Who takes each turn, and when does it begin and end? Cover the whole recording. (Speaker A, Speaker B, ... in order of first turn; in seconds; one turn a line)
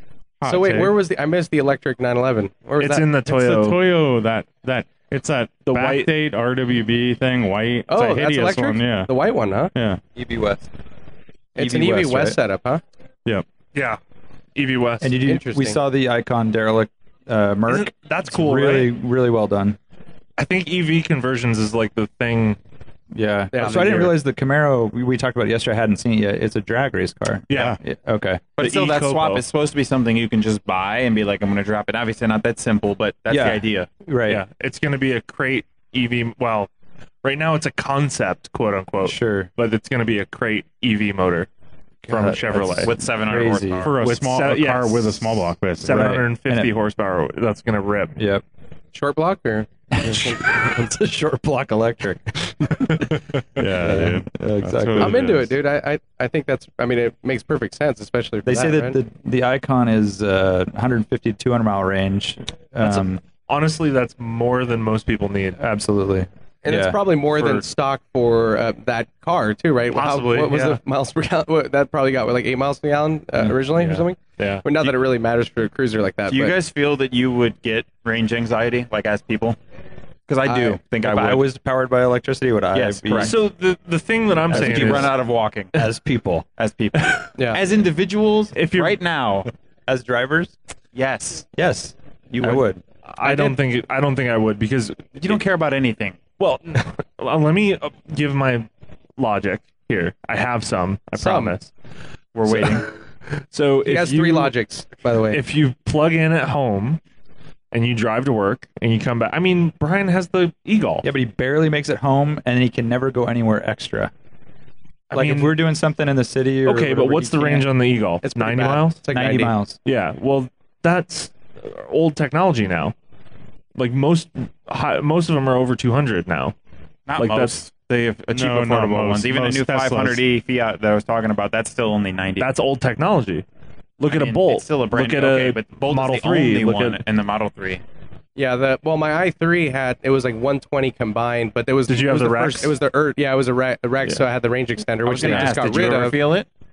Speaker A: 0.4-0.9
Speaker B: 0.5-3.1
Speaker C: 2.8-3.8
Speaker A: 3.3-9.1
Speaker C: 5.7-6.1
Speaker B: 7.9-9.7
Speaker A: 9.8-10.0
Speaker D: 10.2-10.7
Speaker B: 11.6-12.8
Speaker D: 11.6-12.4
Speaker C: 14.6-15.2
Speaker D: 15.0-19.8
Speaker B: 15.2-15.8
Speaker C: 17.7-18.9
Speaker C: 20.4-22.6
Speaker D: 23.1-28.5
Speaker B: 23.5-24.1
Speaker C: 27.5-27.8
Speaker A: 27.5-27.8
Speaker E: 28.6-33.9
Speaker C: 28.6-29.4
Speaker D: 33.3-34.4
Speaker C: 34.3-36.7
Speaker C: 37.2-41.5
Speaker D: 39.0-39.5
Speaker D: 42.0-43.9
Speaker C: 42.1-42.9
Speaker E: 42.6-43.9
Speaker A: 43.8-46.2
Speaker C: 44.0-48.2
Speaker D: 45.9-46.7
Speaker D: 48.2-48.4
Speaker B: 48.9-50.8
Speaker D: 49.9-55.4
Speaker A: 53.6-55.5
Speaker B: 55.0-59.0
Speaker D: 58.4-63.2
Speaker C: 62.8-65.6
Speaker D: 65.6-67.0
Speaker B: 66.7-76.5
Speaker C: 69.9-70.8
Speaker C: 73.8-74.7
Speaker E: 76.3-79.6
Speaker E: 80.3-81.4
Speaker B: 80.5-80.8
Speaker D: 80.9-83.4
Speaker E: 82.7-83.4
Speaker C: 83.2-85.2
Speaker E: 84.5-85.8
Speaker D: 84.5-85.2
Speaker D: 85.7-86.5
Speaker E: 86.6-89.5
Speaker C: 87.0-87.3
Speaker C: 88.5-89.0
Speaker D: 89.9-90.5
Speaker E: 91.0-91.5
Speaker D: 91.6-92.8
Speaker E: 92.3-92.7
Speaker C: 93.1-95.4
Speaker E: 95.2-96.2
Speaker C: 96.4-101.7
Speaker B: 101.2-101.6
Speaker E: 102.3-102.8
Speaker C: 102.5-102.8
Speaker C: 103.5-104.5
Speaker B: 103.9-105.4
Speaker C: 105.3-107.0
Speaker C: 107.7-111.1
Speaker D: 111.0-114.1
Speaker C: 115.1-115.6
Speaker D: 115.1-117.7
Speaker C: 116.7-119.0
Speaker B: 118.2-119.5
Speaker D: 119.1-119.8
Speaker C: 119.8-123.0
Speaker C: 123.8-126.6
Speaker E: 127.1-132.5
Speaker C: 127.2-127.6
Speaker A: 128.3-130.2
Speaker C: 132.4-133.4
Speaker C: 134.0-137.0
Speaker E: 134.1-137.8
Speaker B: 138.4-146.2
Speaker C: 141.9-142.8
Speaker E: 145.1-146.5